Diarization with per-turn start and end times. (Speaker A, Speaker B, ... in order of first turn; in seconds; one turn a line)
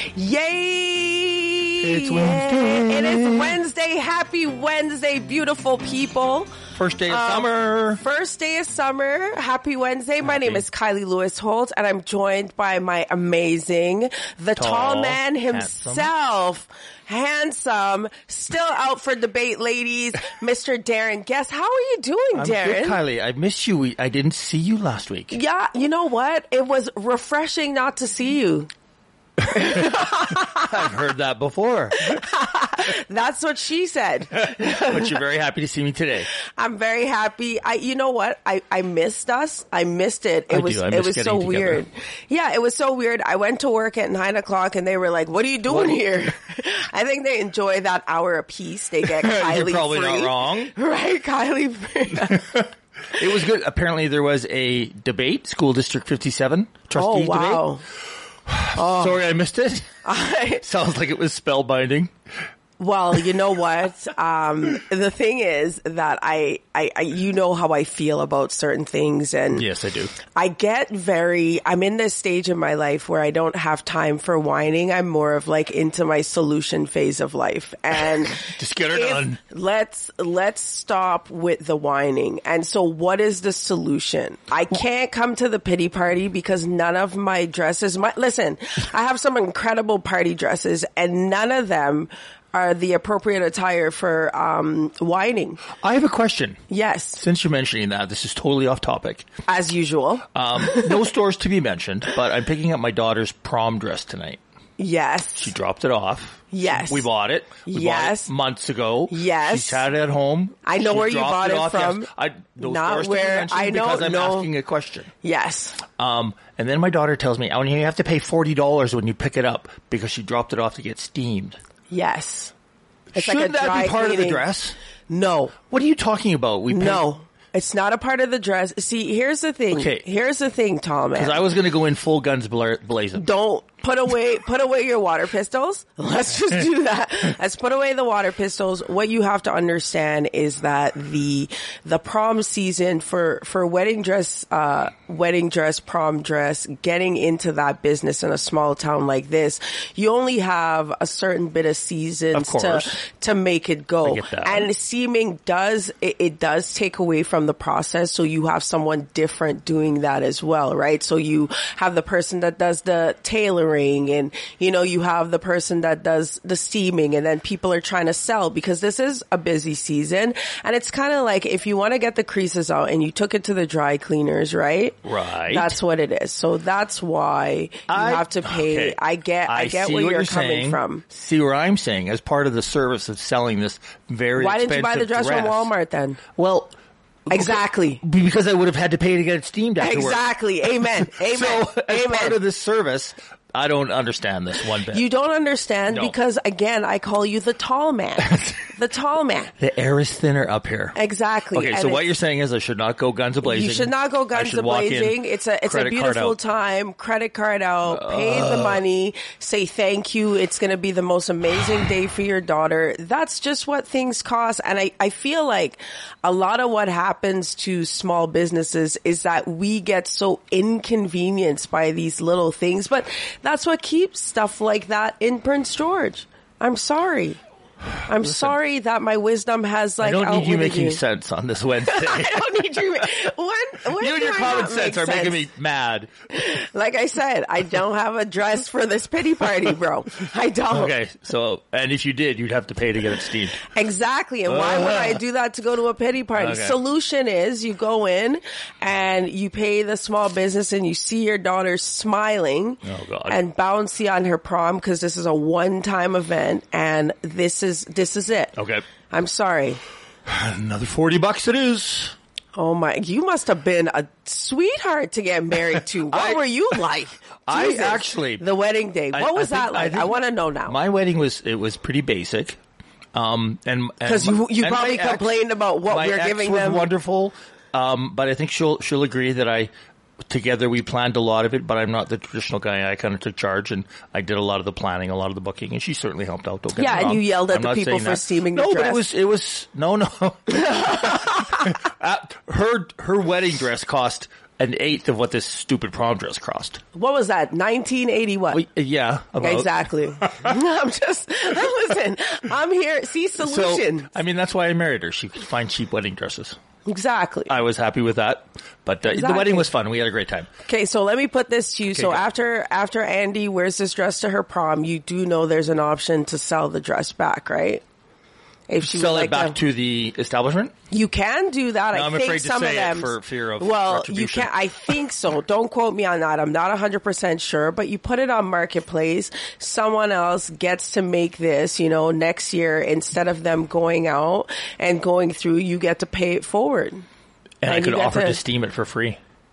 Speaker A: 0.2-6.5
Speaker B: 1.8-3.5
Speaker B: 6.8-8.0
Speaker A: 7.1-23.0
Speaker B: 10.2-10.6
Speaker B: 14.6-16.1
Speaker B: 22.4-25.4
Speaker A: 25.3-28.7
Speaker A: 29.5-30.7
Speaker B: 29.5-32.2
Speaker A: 32.0-35.1
Speaker B: 34.4-36.3
Speaker A: 36.6-52.4
Speaker B: 40.5-41.8
Speaker B: 45.7-46.0
Speaker B: 49.2-50.7
Speaker B: 52.3-57.6
Speaker A: 57.0-57.8
Speaker B: 58.5-59.9
Speaker A: 58.8-59.2
Speaker A: 60.0-60.6
Speaker B: 60.6-62.1
Speaker A: 62.8-69.7
Speaker B: 69.5-70.2
Speaker A: 70.3-95.6
Speaker B: 78.4-79.4
Speaker B: 95.8-96.6
Speaker A: 96.7-97.2
Speaker B: 97.2-99.3
Speaker A: 99.5-101.0
Speaker B: 100.3-104.4
Speaker A: 104.8-105.5
Speaker B: 105.4-115.1
Speaker A: 106.5-107.1
Speaker A: 107.7-108.3
Speaker A: 109.1-109.8
Speaker A: 110.7-112.1
Speaker A: 112.6-114.5
Speaker A: 115.2-115.8
Speaker B: 116.0-121.6
Speaker A: 121.9-122.5
Speaker B: 123.2-124.8
Speaker A: 123.2-124.4
Speaker A: 125.1-125.6
Speaker B: 125.7-127.0
Speaker A: 126.7-131.4
Speaker B: 129.7-130.1
Speaker B: 131.2-133.3
Speaker A: 133.2-175.0
Speaker B: 152.3-153.0
Speaker B: 154.0-154.7
Speaker B: 175.0-175.8
Speaker A: 175.5-181.0
Speaker B: 177.9-185.7
Speaker A: 184.4-186.2
Speaker B: 186.4-186.7
Speaker B: 187.3-190.3
Speaker A: 187.3-188.0
Speaker A: 189.8-192.4
Speaker B: 191.1-195.1
Speaker A: 194.9-199.5
Speaker B: 198.3-198.6
Speaker B: 199.6-201.0
Speaker A: 200.9-202.0
Speaker B: 201.5-206.4
Speaker A: 203.4-227.4
Speaker B: 207.9-208.8
Speaker A: 228.1-231.0
Speaker B: 228.2-228.5
Speaker B: 230.0-232.4
Speaker A: 231.9-235.4
Speaker B: 234.0-236.1
Speaker A: 236.3-240.9
Speaker B: 240.7-243.6
Speaker A: 243.7-258.5
Speaker B: 244.5-245.2
Speaker B: 246.3-246.8
Speaker B: 252.8-253.4
Speaker B: 258.6-258.8
Speaker A: 259.1-259.8
Speaker B: 260.3-262.1
Speaker A: 262.6-270.8
Speaker B: 266.1-266.4
Speaker B: 267.5-268.4
Speaker B: 269.1-272.6
Speaker B: 273.1-279.7
Speaker A: 274.1-276.9
Speaker B: 280.3-296.8
Speaker A: 286.8-289.0
Speaker A: 290.6-291.4
Speaker A: 296.9-298.6
Speaker B: 298.5-300.3
Speaker A: 299.4-304.1
Speaker B: 303.4-306.6
Speaker A: 306.9-307.6
Speaker B: 307.5-310.5
Speaker A: 309.1-309.7
Speaker A: 310.7-317.8
Speaker B: 311.9-312.2
Speaker A: 318.7-319.6
Speaker B: 318.8-320.7
Speaker A: 320.9-337.1
Speaker B: 321.9-324.6
Speaker B: 337.6-339.2
Speaker A: 337.7-338.4